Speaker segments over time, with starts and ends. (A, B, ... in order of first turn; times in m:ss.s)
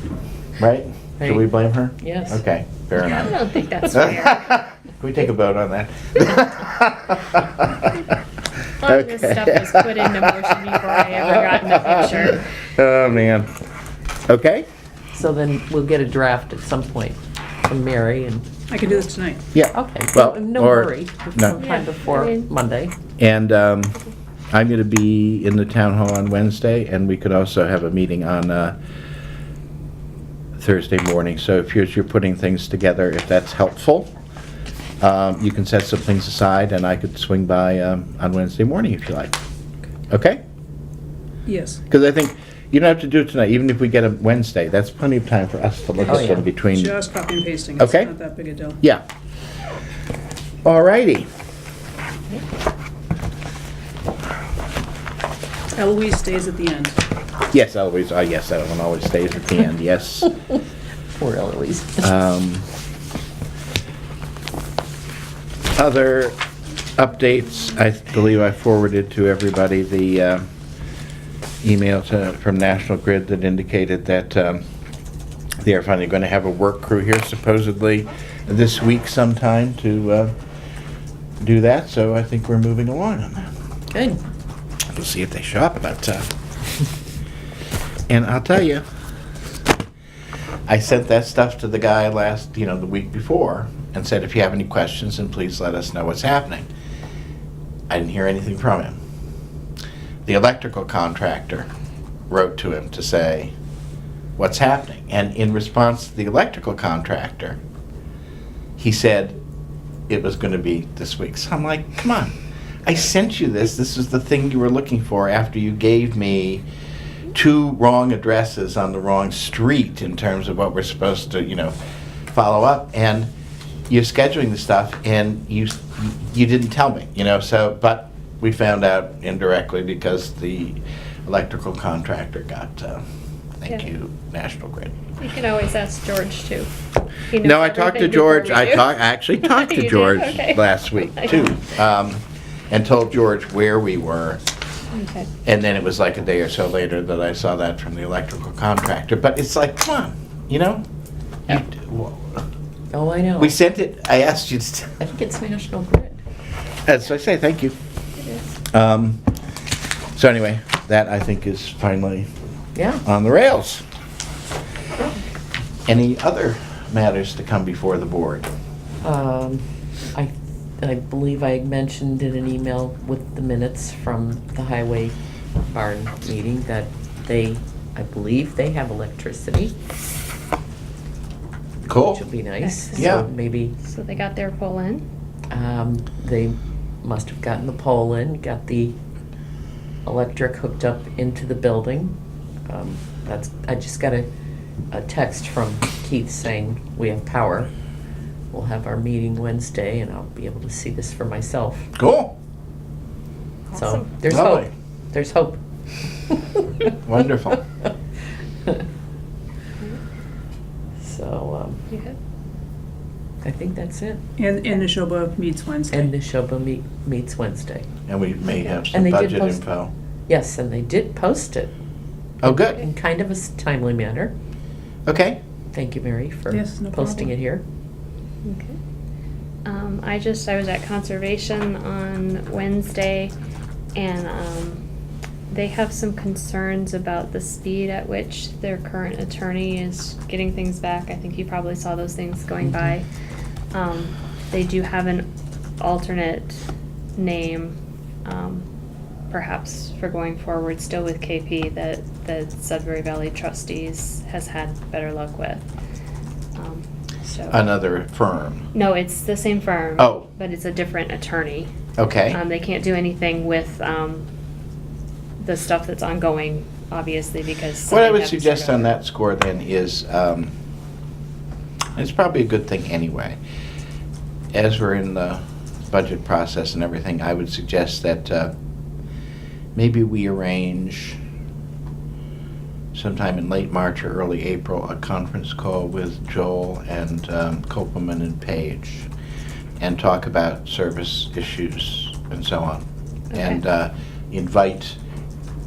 0:00.6-0:03.4 A
0:01.2-0:02.4 B
0:03.0-0:04.5 C
0:03.9-0:08.1 A
0:08.8-0:12.4 C
0:08.8-0:12.1 A
0:12.7-0:13.5 A
0:14.3-0:14.7 A
0:15.1-0:18.5 B
0:18.7-0:19.4 D
0:19.5-0:21.6 A
0:19.7-0:23.0 B
0:21.6-0:22.5 C
0:23.2-0:24.0 A
0:24.5-0:28.8 A
0:30.6-0:34.1 A
0:35.0-0:39.4 A
0:40.1-0:40.4 A
0:41.5-0:41.8 D
0:41.9-0:47.0 A
0:46.1-0:46.5 B
0:46.7-0:48.8 D
0:47.8-0:48.1 A
0:50.6-0:51.3 A
0:55.7-0:57.0 D
0:57.5-1:00.4 A
1:01.2-1:02.2 B
1:02.0-1:02.7 A
1:05.8-1:06.4 A
1:07.0-1:10.5 A
1:11.6-1:14.6 A
1:15.6-1:20.3 A
1:21.4-1:23.5 A
1:23.9-1:24.2 B
1:24.9-1:26.3 A
1:28.1-1:28.8 A
1:30.7-1:36.7 A
1:37.9-1:39.0 A
1:40.3-1:41.7 A
1:42.3-1:43.5 A
1:44.4-1:47.6 A
1:48.8-1:49.4 A
1:50.1-1:56.6 A
1:57.3-2:01.8 A
2:02.3-2:03.3 A
2:03.9-2:13.0 A
2:13.6-2:15.0 A
2:15.2-2:16.7 C
2:17.3-2:21.6 C
2:17.4-2:24.4 A
2:24.9-2:25.3 C
2:25.4-2:30.8 A
2:31.5-2:32.4 A
2:32.9-2:33.6 B
2:33.4-2:35.0 A
2:35.0-2:36.2 B
2:36.9-2:37.8 A
2:38.7-2:39.2 A
2:40.2-2:42.3 A
2:42.8-2:43.0 B
2:43.0-2:43.8 A
2:45.9-2:48.5 A
2:49.0-2:59.8 B
3:01.9-3:02.2 A
3:01.9-3:03.8 B
3:02.6-3:03.2 C
3:02.9-3:03.3 A
3:03.8-3:05.0 C
3:05.5-3:09.0 B
3:10.0-3:12.2 B
3:12.7-3:14.3 B
3:14.9-3:17.7 B
3:18.5-3:21.9 B
3:22.0-3:22.3 A
3:23.7-3:24.1 C
3:23.7-3:26.8 B
3:24.3-3:24.7 A
3:26.9-3:27.6 A
3:31.0-3:31.8 B
3:31.9-3:32.2 C
3:33.4-3:34.2 B
3:34.4-3:36.1 D
3:35.9-3:37.9 B
3:38.1-3:39.9 A
3:38.9-3:39.6 B
3:40.3-3:41.7 B
3:42.4-3:42.8 A
3:42.4-3:44.3 B
3:45.1-3:45.4 A
3:45.7-3:47.6 B
3:46.5-3:47.3 D
3:48.4-3:48.8 C
3:49.6-3:53.3 C
3:54.0-3:54.8 C
3:55.5-4:03.1 C
4:02.6-4:02.9 B
4:03.7-4:05.3 C
4:05.8-4:06.6 C
4:07.2-4:08.6 C
4:09.3-4:15.7 C
4:16.6-4:17.6 C
4:17.5-4:18.7 A
4:18.7-4:21.7 C
4:20.0-4:20.3 A
4:22.0-4:22.4 A
4:22.3-4:24.3 C
4:25.4-4:29.0 C
4:27.9-4:30.5 A
4:32.0-4:33.4 A
4:34.5-4:38.5 A
4:39.8-4:41.2 A
4:42.9-4:49.1 A
4:49.8-4:55.0 A
4:53.3-4:53.6 C